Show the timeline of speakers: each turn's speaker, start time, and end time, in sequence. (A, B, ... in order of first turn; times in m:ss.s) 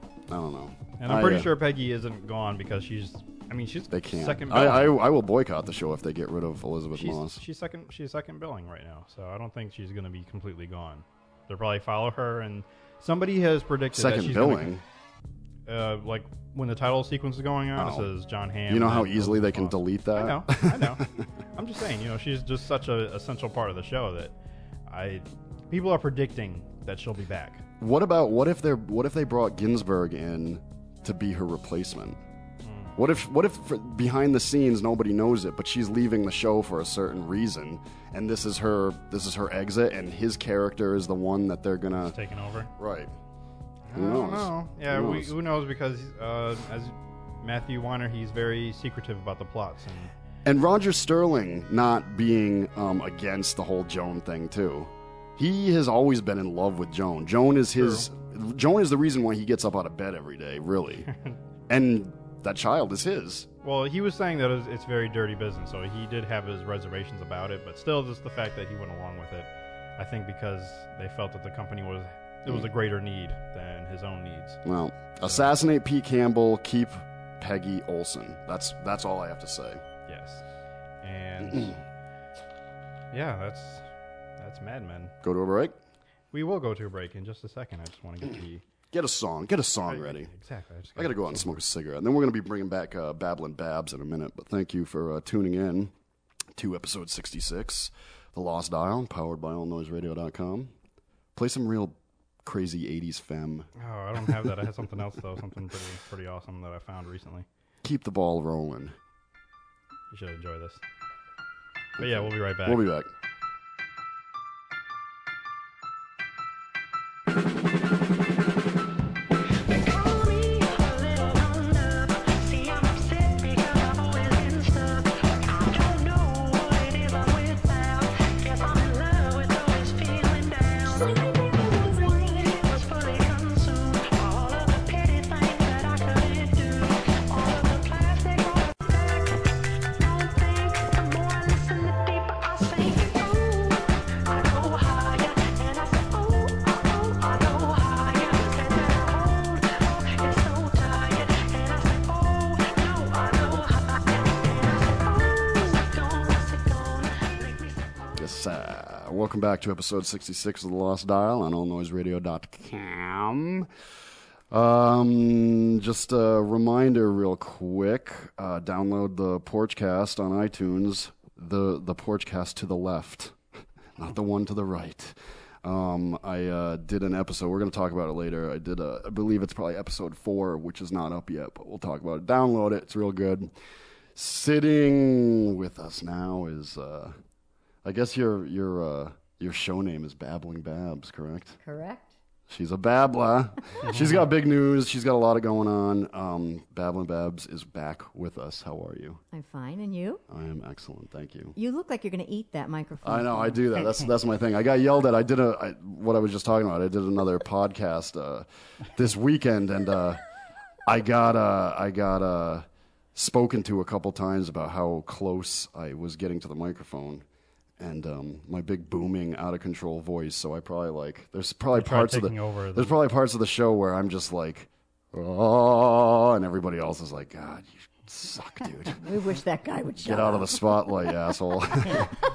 0:00.3-0:01.5 A
0:01.0-0:05.0 B
0:03.9-0:07.4 A
0:06.9-0:14.7 B
0:13.9-0:14.8 A
0:15.7-0:24.4 B
0:17.8-0:18.1 A
0:18.7-0:21.2 A
0:24.9-0:27.6 B
0:27.8-0:32.2 A
0:32.6-0:33.0 B
0:33.0-0:42.2 A
0:42.0-0:42.7 B
0:42.8-0:43.1 A
0:43.9-0:50.1 B
0:43.9-0:45.3 A
0:50.4-1:01.1 A
0:57.8-0:58.1 B
1:01.7-1:03.5 A
1:03.6-1:14.6 B
1:14.6-1:19.8 A
1:20.1-1:20.4 B
1:21.0-1:21.8 B
1:23.1-1:23.9 B
1:24.4-1:25.1 B
1:25.2-1:25.8 A
1:26.3-1:28.6 B
1:28.9-1:30.3 A
1:29.9-1:31.6 B
1:31.0-1:35.9 A
1:36.6-1:40.7 A
1:41.4-1:43.7 A
1:43.8-1:47.5 B
1:47.8-1:49.0 A
1:50.1-1:50.8 B
1:52.0-1:52.8 B
1:52.0-1:53.1 A
1:59.6-2:38.1 C
2:38.2-2:43.7 A
2:44.5-2:53.4 A
2:54.0-3:03.5 A
3:04.1-3:07.2 A
3:07.8-3:11.6 A
3:11.6-3:12.1 D
3:12.5-3:19.2 A
3:19.3-3:20.2 D
3:20.3-3:21.6 A
3:21.6-3:23.6 D
3:23.0-3:30.2 A
3:30.9-3:37.2 A
3:37.8-3:49.0 A
3:41.7-3:43.0 B
3:49.0-3:51.1 D
3:50.0-3:52.1 A